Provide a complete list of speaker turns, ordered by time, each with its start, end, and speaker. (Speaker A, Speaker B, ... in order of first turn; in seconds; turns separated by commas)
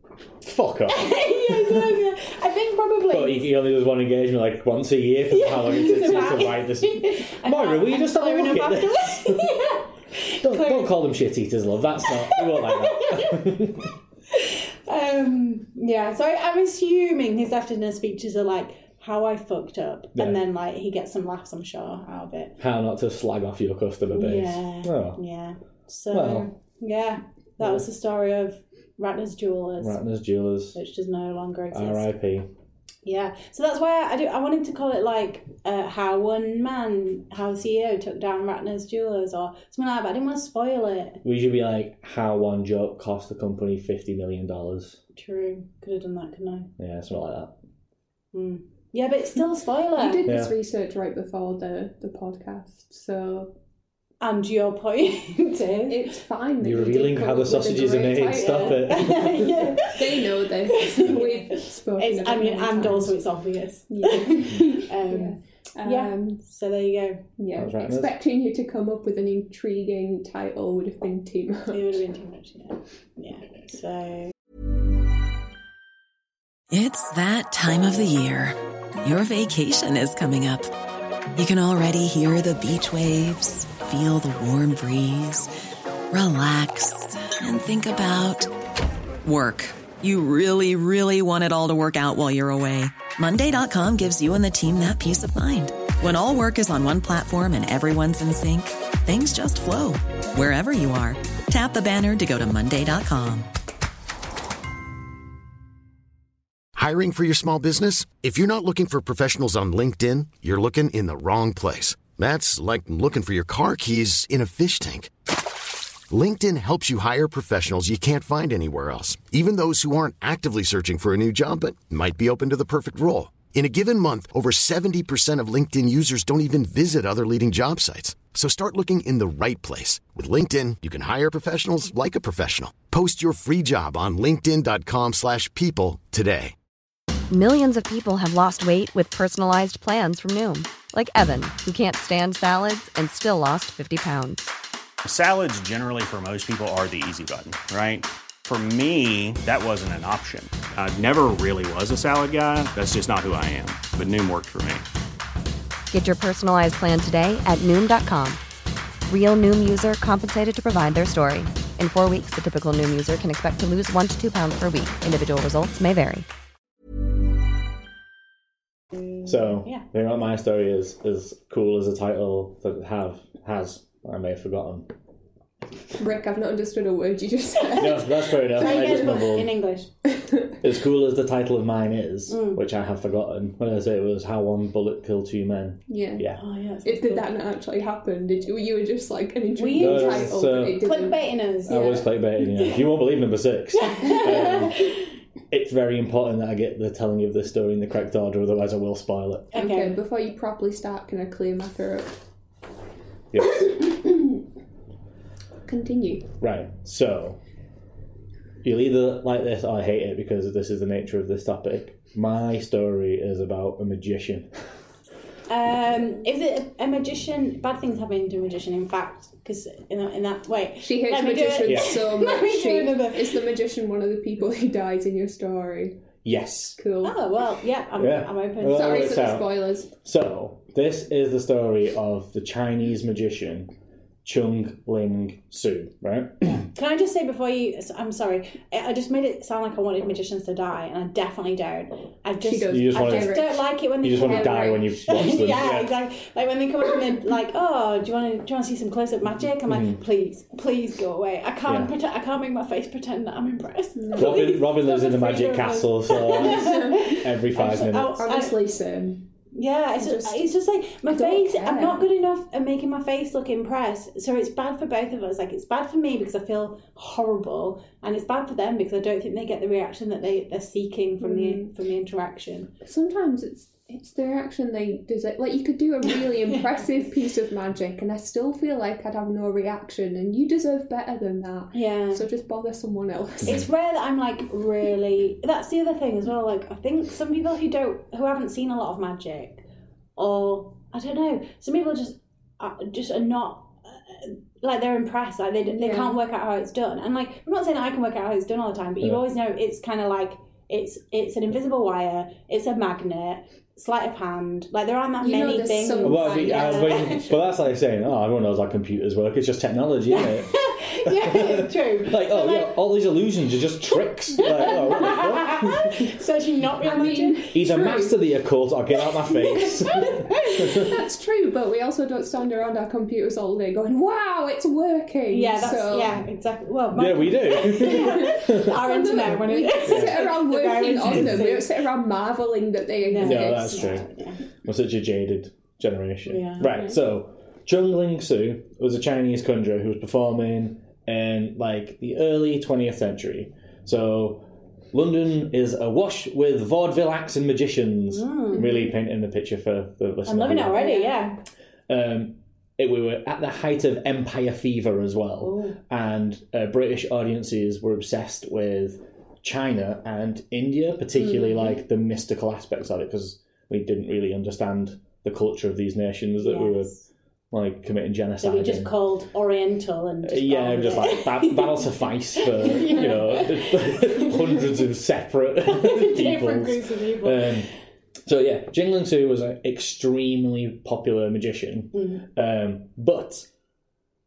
Speaker A: 0.4-1.9, Speaker B: 0.9-3.5, Speaker A: 3.1-9.6, Speaker B: 5.3-10.9, Speaker A: 10.4-13.9, Speaker B: 12.1-13.7, Speaker B: 14.3-22.6, Speaker A: 22.6-25.2, Speaker B: 24.1-30.0, Speaker A: 26.1-26.5, Speaker A: 29.8-30.8, Speaker B: 30.7-32.1, Speaker A: 31.7-32.5, Speaker B: 33.0-41.2, Speaker A: 41.2-45.0, Speaker B: 45.2-46.7, Speaker A: 46.8-47.5, Speaker B: 48.3-50.3, Speaker C: 50.0-53.5, Speaker A: 50.3-50.5, Speaker B: 54.2-56.1, Speaker C: 55.9-58.9, Speaker A: 56.6-59.7, Speaker B: 58.3-67.3, Speaker C: 59.5-63.1, Speaker C: 63.9-66.4, Speaker C: 67.4-72.0, Speaker A: 67.5-68.2, Speaker B: 71.7-74.3, Speaker D: 76.7-80.7, Speaker D: 81.4-85.5, Speaker D: 86.1-88.5, Speaker D: 89.2-103.5, Speaker E: 106.8-115.1, Speaker E: 116.1-136.5, Speaker F: 137.3-144.5, Speaker G: 145.0-154.8, Speaker F: 155.9-158.4, Speaker F: 159.1-166.3, Speaker A: 169.2-174.9, Speaker C: 176.0-178.8, Speaker A: 177.8-179.5, Speaker B: 178.5-179.9, Speaker A: 180.6-186.4, Speaker B: 182.3-182.6, Speaker C: 185.9-186.3, Speaker B: 186.4-187.3, Speaker C: 186.8-191.2, Speaker B: 189.6-192.8, Speaker A: 189.8-190.8, Speaker A: 191.7-194.9, Speaker B: 193.7-195.0, Speaker A: 195.5-199.5, Speaker B: 199.5-199.9, Speaker C: 199.6-202.2, Speaker A: 203.3-203.7, Speaker C: 205.7-206.3, Speaker A: 206.4-207.4, Speaker A: 208.6-214.5, Speaker B: 215.5-223.3, Speaker C: 220.8-226.0, Speaker A: 221.7-222.0, Speaker A: 226.2-226.8, Speaker C: 226.8-227.2, Speaker B: 227.0-229.4, Speaker A: 228.0-233.7, Speaker C: 228.6-229.9, Speaker A: 234.2-236.7, Speaker B: 236.6-258.6, Speaker C: 242.4-244.9, Speaker A: 242.7-243.4, Speaker A: 244.0-245.9, Speaker A: 249.7-250.0, Speaker A: 251.7-251.9, Speaker C: 254.0-254.5, Speaker A: 254.2-258.2, Speaker C: 256.3-259.2, Speaker B: 259.5-272.7, Speaker C: 260.0-260.5, Speaker C: 261.1-262.0, Speaker C: 271.2-271.7, Speaker C: 272.8-283.7, Speaker B: 281.7-282.2, Speaker B: 283.4-289.6, Speaker B: 290.2-307.4, Speaker C: 295.7-296.1, Speaker C: 305.2-307.1, Speaker A: 306.0-310.5, Speaker B: 310.1-312.8, Speaker A: 311.0-316.1, Speaker B: 314.4-317.5, Speaker C: 316.8-318.2, Speaker A: 317.5-320.9, Speaker C: 319.9-326.2, Speaker B: 325.3-331.7, Speaker A: 326.9-330.3, Speaker C: 327.6-333.9, Speaker B: 333.1-334.4, Speaker A: 333.2-334.1, Speaker A: 334.6-350.9, Speaker B: 336.3-336.9, Speaker B: 348.1-348.8, Speaker B: 350.2-351.4, Speaker C: 350.8-351.2, Speaker A: 351.9-366.9, Speaker B: 355.4-355.8, Speaker B: 361.2-361.8, Speaker B: 366.4-367.1, Speaker A: 367.5-368.9, Speaker B: 368.4-374.8, Speaker A: 370.2-377.7, Speaker B: 375.6-377.7, Speaker A: 378.3-383.5, Speaker B: 381.9-382.2